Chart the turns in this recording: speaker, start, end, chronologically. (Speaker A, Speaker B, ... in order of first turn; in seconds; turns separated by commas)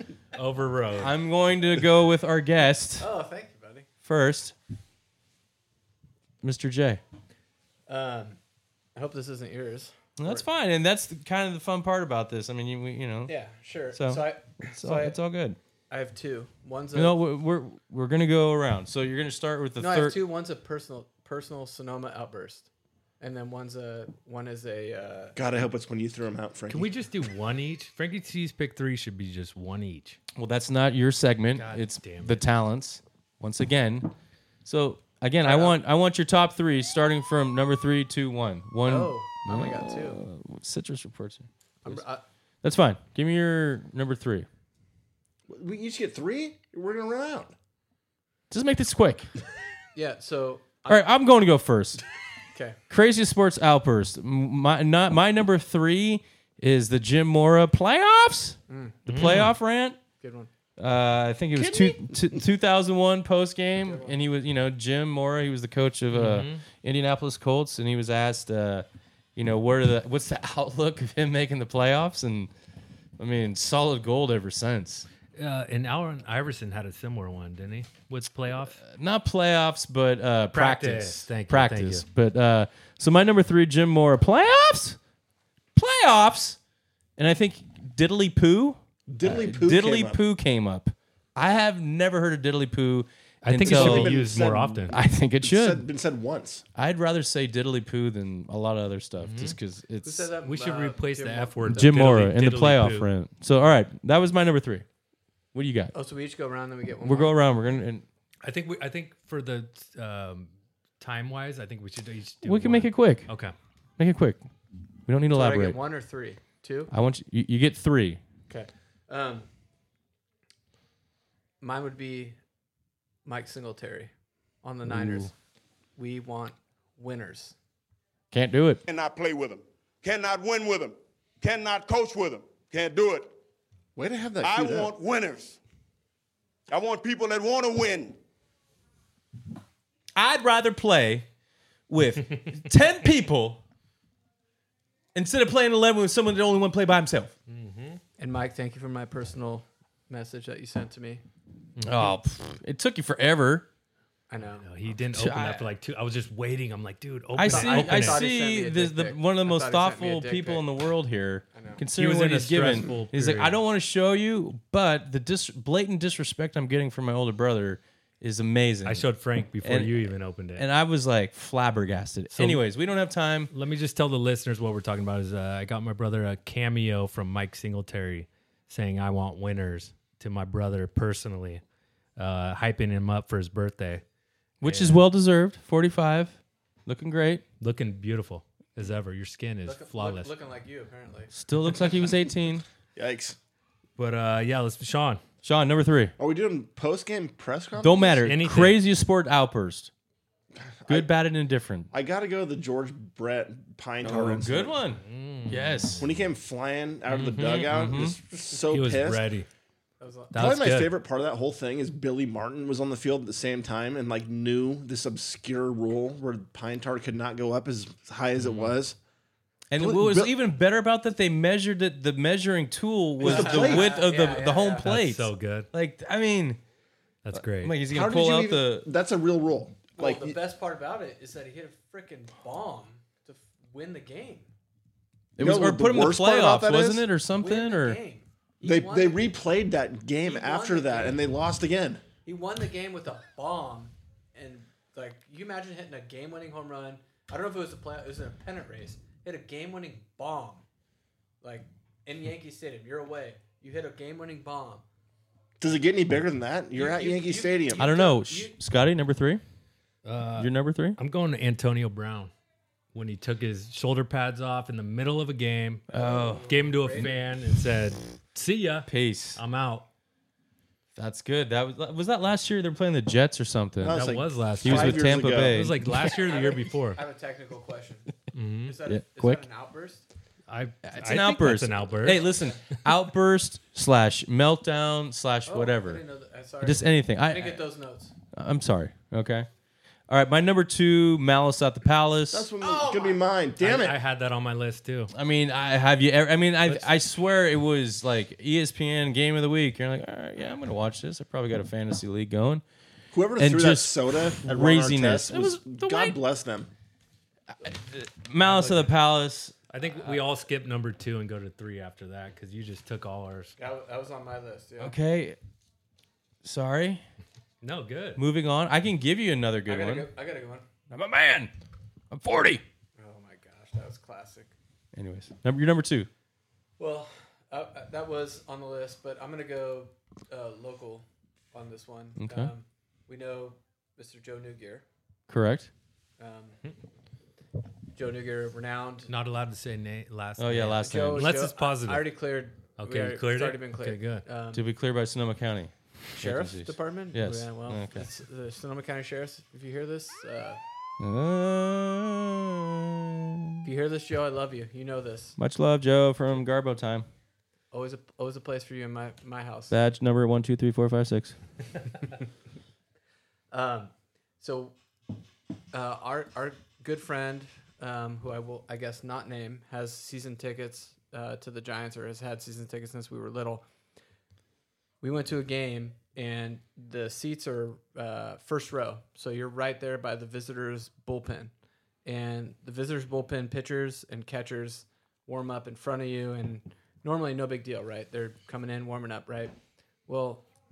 Speaker A: 0.3-1.1, Speaker B: 1.0-3.1, Speaker C: 3.0-3.9, Speaker B: 4.0-4.5, Speaker B: 6.4-7.0, Speaker C: 7.9-8.4, Speaker C: 8.9-10.4, Speaker B: 10.2-13.4, Speaker C: 13.3-15.2, Speaker B: 13.9-15.6, Speaker C: 15.9-17.2, Speaker B: 16.9-20.2, Speaker C: 19.8-22.7, Speaker C: 23.2-25.4, Speaker D: 25.3-26.9, Speaker A: 26.7-30.2, Speaker B: 30.3-34.1, Speaker A: 31.5-32.4, Speaker B: 34.6-42.0, Speaker C: 35.4-35.8, Speaker C: 38.8-40.2, Speaker C: 41.8-42.2, Speaker B: 42.6-44.5, Speaker D: 45.5-47.5, Speaker B: 48.5-49.3, Speaker C: 49.9-51.0, Speaker B: 50.9-52.0, Speaker C: 52.5-52.8, Speaker B: 52.9-60.0, Speaker C: 58.7-59.0, Speaker A: 59.1-59.5, Speaker C: 60.2-60.5, Speaker B: 60.8-72.5, Speaker D: 61.5-62.1, Speaker C: 63.8-64.1, Speaker A: 66.1-66.6, Speaker B: 73.2-75.1, Speaker A: 75.3-78.8, Speaker B: 78.8-85.0, Speaker A: 80.5-82.0, Speaker B: 85.7-86.6, Speaker B: 87.2-94.2, Speaker D: 89.1-90.2, Speaker A: 93.4-95.0, Speaker D: 93.6-96.6, Speaker B: 94.9-95.8, Speaker B: 96.7-100.3, Speaker A: 99.2-99.5, Speaker C: 100.0-101.9, Speaker A: 100.4-103.1, Speaker B: 101.7-104.8, Speaker B: 105.5-105.9, Speaker C: 105.9-107.4, Speaker B: 107.0-108.0, Speaker A: 108.4-113.5, Speaker B: 112.4-113.3, Speaker B: 114.0-114.4, Speaker B: 115.1-115.8, Speaker C: 115.3-116.9, Speaker B: 116.9-118.2, Speaker C: 118.5-119.5, Speaker C: 121.6-122.4, Speaker C: 123.2-124.1, Speaker C: 124.6-125.3, Speaker B: 124.8-125.3, Speaker C: 126.0-127.5, Speaker B: 128.3-128.8, Speaker E: 128.8-133.3, Speaker D: 133.9-134.9, Speaker E: 134.4-135.6, Speaker E: 136.7-138.2, Speaker B: 140.1-141.2, Speaker B: 141.9-143.6, Speaker B: 145.1-147.3, Speaker A: 147.5-148.0, Speaker C: 148.2-151.2, Speaker A: 151.8-152.2, Speaker B: 151.8-153.7, Speaker C: 154.3-154.7, Speaker A: 154.6-158.2, Speaker B: 155.1-155.7, Speaker B: 157.3-169.1, Speaker C: 157.5-160.6, Speaker C: 161.5-161.8, Speaker A: 161.9-163.6, Speaker A: 168.8-170.7, Speaker B: 169.6-173.5, Speaker A: 172.3-172.6, Speaker A: 173.5-181.6, Speaker A: 182.2-184.0, Speaker B: 184.6-187.4, Speaker A: 184.6-185.0, Speaker A: 187.6-190.3, Speaker C: 189.6-191.3, Speaker B: 191.3-192.6, Speaker D: 192.9-193.4, Speaker A: 194.0-195.2, Speaker B: 195.4-196.1, Speaker D: 196.2-198.2, Speaker B: 197.8-199.9, Speaker A: 198.2-198.8, Speaker D: 200.5-201.1, Speaker B: 200.9-201.9, Speaker D: 201.9-204.8, Speaker B: 204.0-206.0, Speaker A: 205.0-206.1, Speaker D: 206.0-209.3, Speaker A: 207.1-207.7, Speaker B: 207.3-208.2, Speaker A: 208.7-209.5, Speaker C: 210.0-210.5, Speaker A: 210.3-210.9, Speaker D: 210.3-219.0, Speaker A: 218.4-218.7, Speaker B: 219.7-226.6, Speaker D: 219.8-220.3, Speaker D: 223.2-223.9, Speaker C: 223.2-224.8, Speaker A: 224.8-225.7, Speaker A: 227.2-227.7, Speaker B: 227.3-228.8, Speaker D: 227.9-230.4, Speaker C: 230.0-234.5, Speaker B: 235.3-238.0, Speaker D: 235.4-237.1, Speaker C: 237.4-239.3, Speaker D: 238.6-242.0, Speaker C: 240.2-241.2, Speaker C: 242.2-250.6, Speaker C: 251.4-254.8, Speaker D: 255.6-257.8, Speaker C: 256.8-258.5, Speaker B: 257.8-259.4, Speaker A: 260.0-262.3, Speaker B: 260.4-261.0, Speaker A: 262.9-265.9, Speaker C: 265.9-267.2, Speaker B: 265.9-266.5, Speaker A: 266.4-269.9, Speaker B: 268.9-269.4, Speaker B: 270.9-274.0, Speaker D: 273.8-275.7, Speaker A: 273.9-277.0, Speaker B: 274.6-275.9, Speaker C: 276.1-278.1, Speaker A: 278.3-278.8, Speaker C: 278.6-280.1, Speaker B: 278.9-279.4, Speaker A: 280.5-282.3, Speaker B: 280.8-286.0, Speaker C: 282.2-282.5, Speaker C: 285.5-288.1, Speaker B: 286.6-287.6, Speaker B: 288.3-289.5, Speaker B: 290.1-292.5, Speaker D: 292.3-294.0, Speaker C: 292.6-293.2, Speaker A: 293.6-295.1, Speaker B: 295.1-302.6, Speaker D: 303.1-306.7, Speaker B: 303.4-306.2, Speaker B: 307.6-310.2, Speaker C: 308.4-308.9, Speaker A: 309.7-313.5, Speaker C: 313.6-314.9, Speaker B: 314.8-315.4, Speaker B: 316.4-317.0, Speaker A: 317.6-318.2, Speaker B: 318.2-320.1, Speaker C: 319.7-320.6, Speaker B: 320.9-321.5, Speaker B: 322.1-322.6, Speaker C: 323.0-324.5, Speaker B: 324.9-326.1, Speaker C: 326.8-334.8, Speaker B: 332.2-332.5, Speaker B: 335.3-335.7, Speaker C: 336.2-336.6, Speaker C: 337.9-339.1, Speaker A: 339.1-342.1, Speaker B: 340.4-341.4, Speaker C: 340.8-344.6, Speaker A: 342.8-344.2, Speaker B: 344.5-348.1, Speaker C: 346.1-350.6, Speaker B: 351.0-353.6, Speaker C: 353.6-355.4, Speaker B: 355.4-357.1, Speaker C: 357.7-359.7, Speaker B: 359.7-361.4, Speaker C: 363.5-364.8, Speaker C: 365.7-373.6, Speaker C: 375.0-381.5, Speaker C: 382.0-389.5, Speaker C: 390.1-390.5